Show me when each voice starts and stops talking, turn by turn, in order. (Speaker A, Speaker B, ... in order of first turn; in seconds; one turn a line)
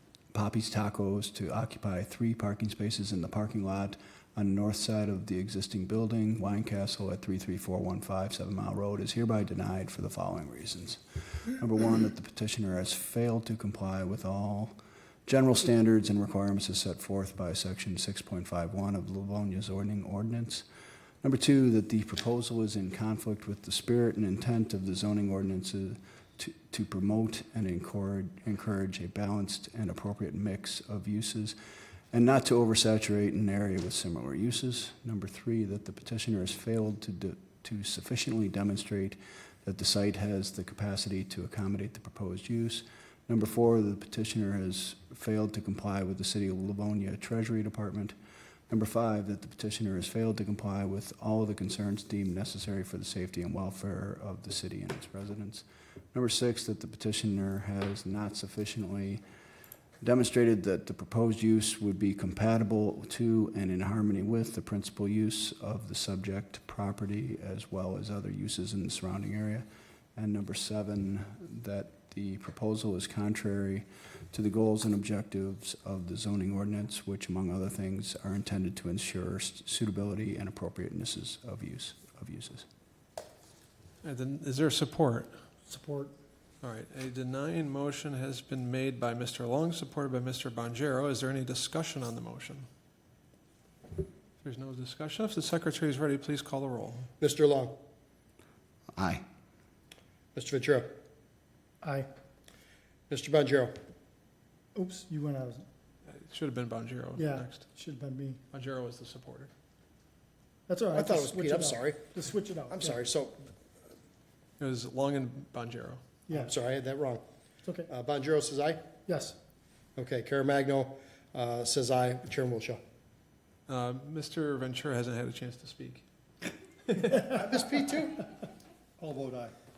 Speaker A: 0.3-20.6
Speaker A: 21.2-31.6
Speaker A: 32.1-48.1
Speaker A: 48.7-59.2
Speaker A: 60.0-82.7
Speaker B: 84.0-85.3
Speaker C: 85.7-86.1
Speaker B: 86.6-92.7
Speaker B: 94.4-97.1
Speaker D: 97.2-97.8
Speaker A: 98.9-99.2
Speaker D: 100.3-101.0
Speaker C: 101.8-102.1
Speaker D: 103.1-103.8
Speaker C: 104.7-105.6
Speaker B: 106.1-107.7
Speaker C: 107.2-108.4
Speaker B: 108.5-109.5
Speaker C: 110.7-113.0
Speaker D: 110.9-112.1
Speaker D: 112.7-113.5
Speaker B: 114.6-116.0
Speaker C: 116.3-116.5
Speaker D: 116.3-117.2
Speaker C: 117.6-117.9
Speaker D: 117.9-118.9
Speaker C: 119.0-119.4
Speaker D: 120.0-122.8
Speaker B: 123.7-126.0
Speaker B: 126.9-127.3
Speaker D: 127.2-128.3
Speaker C: 129.0-129.5